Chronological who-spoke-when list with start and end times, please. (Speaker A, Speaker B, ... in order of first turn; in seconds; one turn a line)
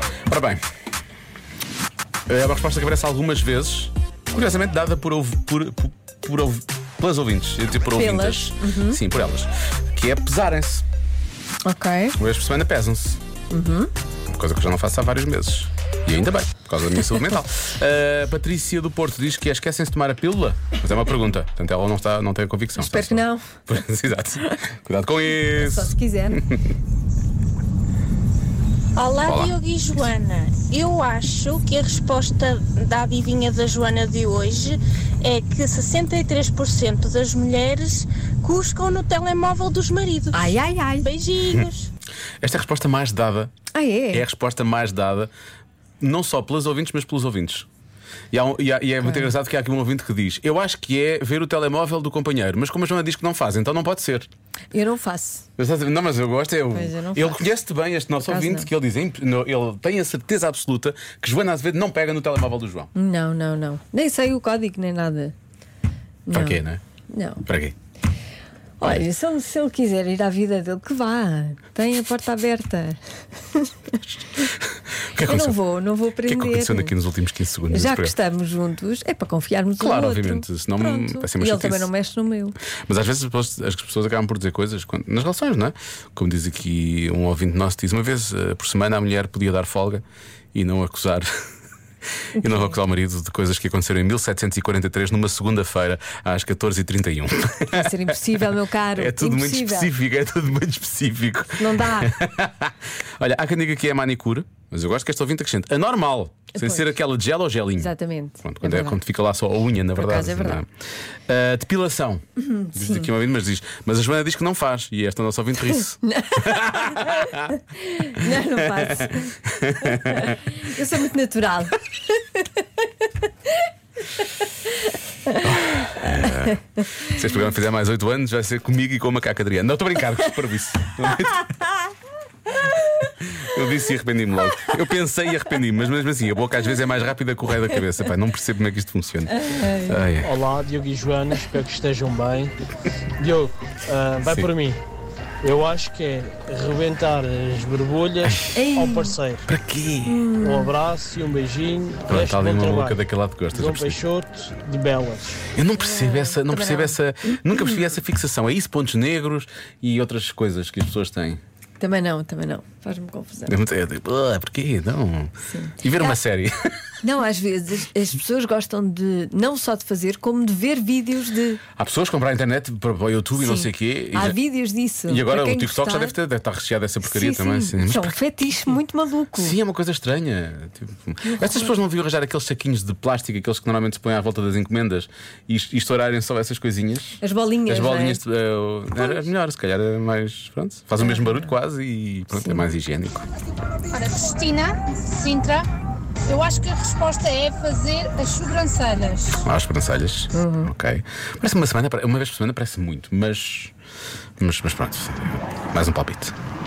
Speaker A: 0.3-0.6
Speaker A: 2.3-10.8
Speaker B: 7.9-9.0
Speaker B: 11.6-12.2
Speaker A: 12.2-13.2
Speaker B: 13.5-13.9
Speaker A: 14.3-26.6
Speaker B: 22.8-23.6
Speaker B: 25.4-26.4
Speaker C: 29.0-29.9
Speaker A: 29.2-29.6
Speaker D: 29.9-41.9
Speaker C: 30.7-31.0
Speaker B: 40.3-41.1
Speaker A: 42.4-43.5
Speaker B: 43.7-44.2
Speaker A: 44.1-45.3
Speaker A: 46.0-47.7
Speaker A: 48.3-54.3
Speaker B: 49.0-49.3
Speaker B: 54.7-55.5
Speaker A: 55.6-62.9
Speaker B: 56.7-57.5
Speaker B: 58.2-58.7
Speaker B: 63.0-65.3
Speaker B: 66.3-67.4
Speaker A: 66.3-66.8
Speaker A: 67.5-67.8
Speaker B: 68.8-74.5
Speaker A: 74.4-75.6
Speaker B: 75.2-77.0
Speaker A: 76.3-78.2
Speaker B: 77.7-82.6
Speaker A: 79.8-81.9
Speaker A: 82.8-91.3
Speaker B: 92.4-92.8
Speaker A: 92.4-110.7
Speaker B: 97.7-99.9
Speaker B: 101.6-102.2
Speaker B: 106.5-106.9
Speaker B: 107.8-109.0
Speaker B: 110.0-110.6
Speaker A: 111.3-117.5
Speaker B: 112.4-113.1
Speaker B: 116.0-122.6
Speaker A: 118.2-120.6
Speaker B: 124.2-124.7
Speaker B: 125.3-126.5
Speaker A: 125.4-131.5
Speaker A: 132.9-140.3
Speaker B: 139.3-140.0
Speaker E: 140.2-142.5
Speaker E: 143.2-144.8
Speaker E: 145.4-149.5
Speaker A: 148.2-148.7
Speaker B: 148.5-149.2
Speaker A: 149.5-150.3
Speaker B: 150.0-150.7
Speaker E: 150.4-155.4
Speaker A: 152.1-154.0
Speaker A: 155.5-161.4
Speaker B: 155.8-157.9
Speaker B: 161.8-163.6
Speaker A: 163.5-166.9
Speaker B: 165.5-166.2
Speaker B: 167.0-171.6
Speaker A: 171.8-174.4
Speaker B: 173.4-176.2
Speaker A: 175.1-178.2
Speaker B: 177.0-179.6
Speaker A: 179.3-193.3
Speaker B: 181.2-181.8
Speaker B: 187.2-188.2
Speaker B: 189.0-189.3
Speaker B: 191.0-191.5
Speaker B: 192.3-192.7
Speaker C: 193.9-195.7
Speaker C: 196.3-199.4
Speaker A: 199.4-203.7
Speaker B: 200.3-200.7
Speaker A: 204.4-206.3